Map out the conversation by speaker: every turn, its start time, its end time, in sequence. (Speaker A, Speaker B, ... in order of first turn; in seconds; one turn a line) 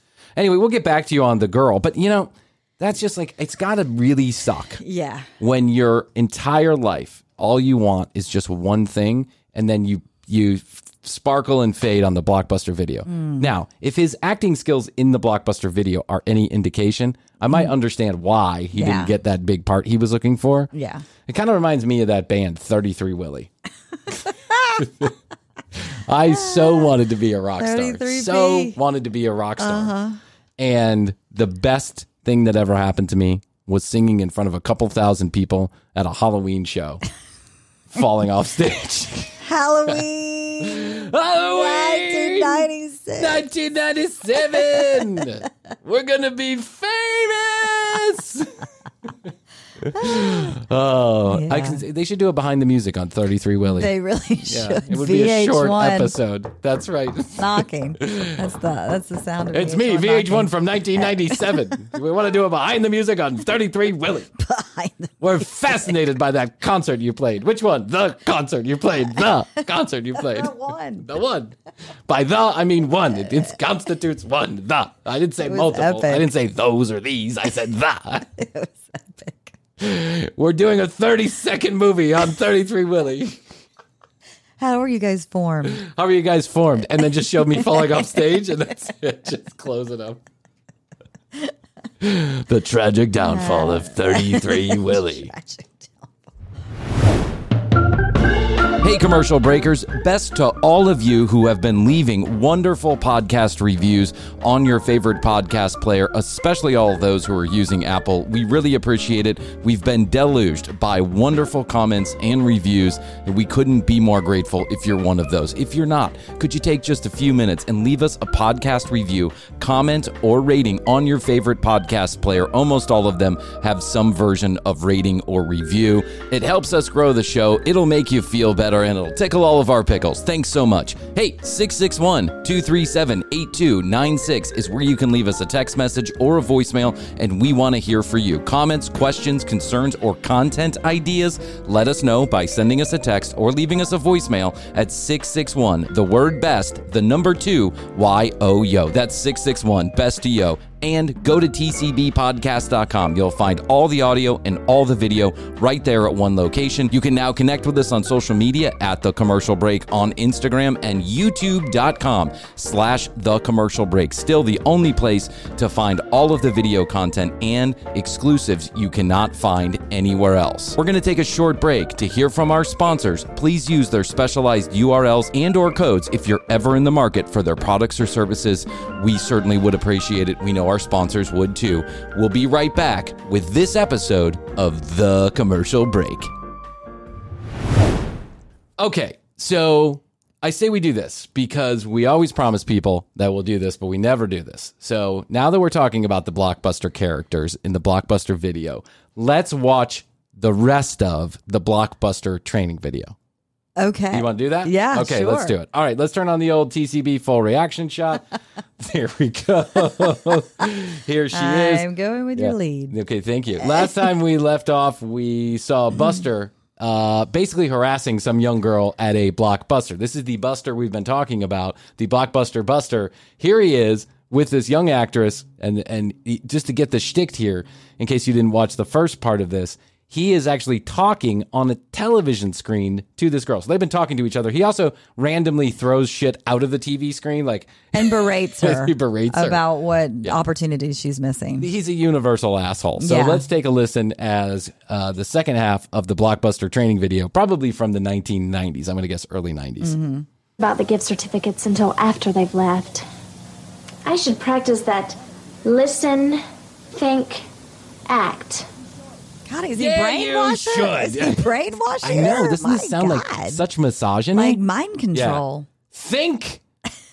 Speaker A: 0.3-4.8
Speaker B: 4.8-5.3
Speaker A: 5.4-20.7
Speaker B: 13.1-13.5
Speaker B: 18.7-19.1
Speaker B: 20.7-21.0
Speaker A: 21.3-23.5
Speaker B: 24.5-24.8
Speaker A: 24.8-25.1
Speaker A: 26.1-29.9
Speaker B: 26.4-26.9
Speaker B: 27.6-28.8
Speaker B: 29.6-30.2
Speaker A: 30.6-37.0
Speaker A: 37.9-39.4
Speaker B: 39.4-43.4
Speaker A: 40.6-48.5
Speaker A: 49.8-53.9
Speaker B: 49.9-50.5
Speaker B: 51.3-51.8
Speaker B: 53.7-56.1
Speaker A: 54.5-58.4
Speaker B: 57.4-60.5
Speaker A: 59.5-64.3
Speaker B: 64.4-65.1
Speaker A: 65.2-71.5
Speaker B: 70.3-71.0
Speaker A: 72.1-78.3
Speaker B: 75.4-76.2
Speaker B: 78.4-79.5
Speaker A: 79.8-83.4
Speaker B: 84.6-85.8
Speaker A: 85.8-90.2
Speaker A: 92.0-95.3
Speaker B: 93.2-96.1
Speaker A: 98.8-186.3
Speaker A: 188.8-203.1
Speaker B: 203.8-205.5
Speaker A: 204.1-208.2
Speaker A: 208.8-238.1
Speaker B: 211.3-212.9
Speaker B: 213.6-213.9
Speaker B: 237.9-241.7
Speaker A: 238.6-239.6
Speaker A: 241.6-249.9
Speaker B: 243.0-243.4
Speaker B: 249.8-250.2
Speaker C: 250.6-253.1
Speaker C: 254.1-257.4
Speaker C: 258.1-258.7
Speaker B: 259.5-263.6
Speaker A: 259.8-261.5
Speaker A: 262.0-264.6
Speaker B: 264.3-265.7
Speaker A: 265.1-266.6